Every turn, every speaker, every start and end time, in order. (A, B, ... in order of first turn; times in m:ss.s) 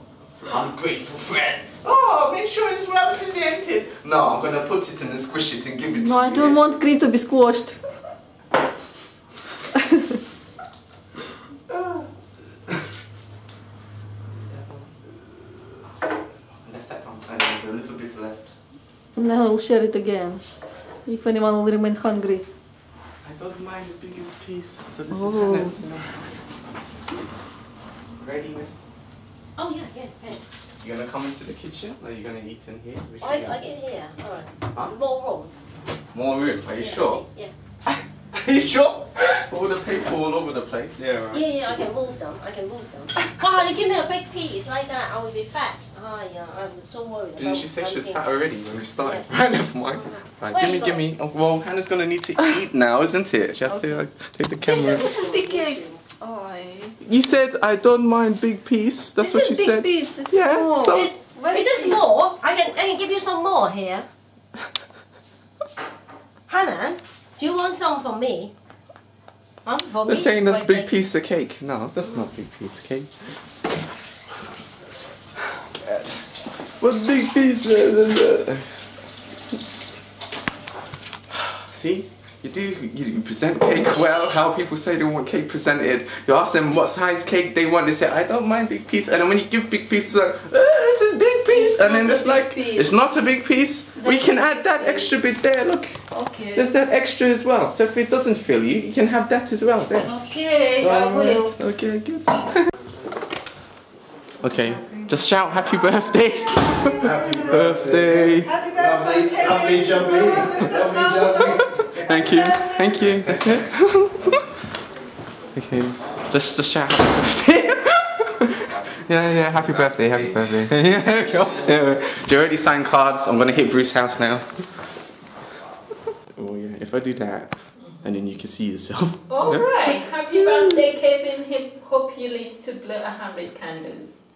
0:00.5-0:06.8 A
0:06.0-0:07.8 B
0:11.7-0:12.1 A
0:14.3-0:14.9 A
0:16.6-0:18.5 A
0:19.1-0:20.4 B
0:21.0-0:22.4 B
0:23.2-0:26.2 A
0:25.1-0:25.8 B
0:28.2-0:28.8 A
0:29.6-0:30.4 C
0:30.8-0:33.7 A
0:33.2-0:35.5 C
0:36.1-0:37.2 A
0:36.8-0:37.5 C
0:37.8-0:41.5 A
0:41.3-0:48.2 C
0:47.4-0:55.1 A
0:49.0-0:49.3 C
0:49.9-0:51.0 C
0:53.7-0:54.0 B
0:54.6-0:56.0 C
0:54.8-0:57.0 B
0:57.0-1:01.1 A
0:59.2-1:02.0 B
1:00.9-1:04.0 C
1:06.5-1:08.5 C
1:09.6-1:10.9 C
1:10.1-1:13.1 A
1:15.7-1:16.2 A
1:16.8-1:18.8 A
1:21.3-1:36.0 A
1:31.5-1:32.9 B
1:34.0-1:35.2 B
1:36.1-1:36.7 B
1:36.5-1:40.2 A
1:40.0-1:41.5 B
1:40.8-1:42.7 A
1:44.4-1:48.6 A
1:47.0-1:52.7 D
1:49.4-1:50.3 B
1:51.8-1:54.4 A
1:55.5-2:04.5 A
2:06.4-2:09.7 A
2:09.3-2:14.1 E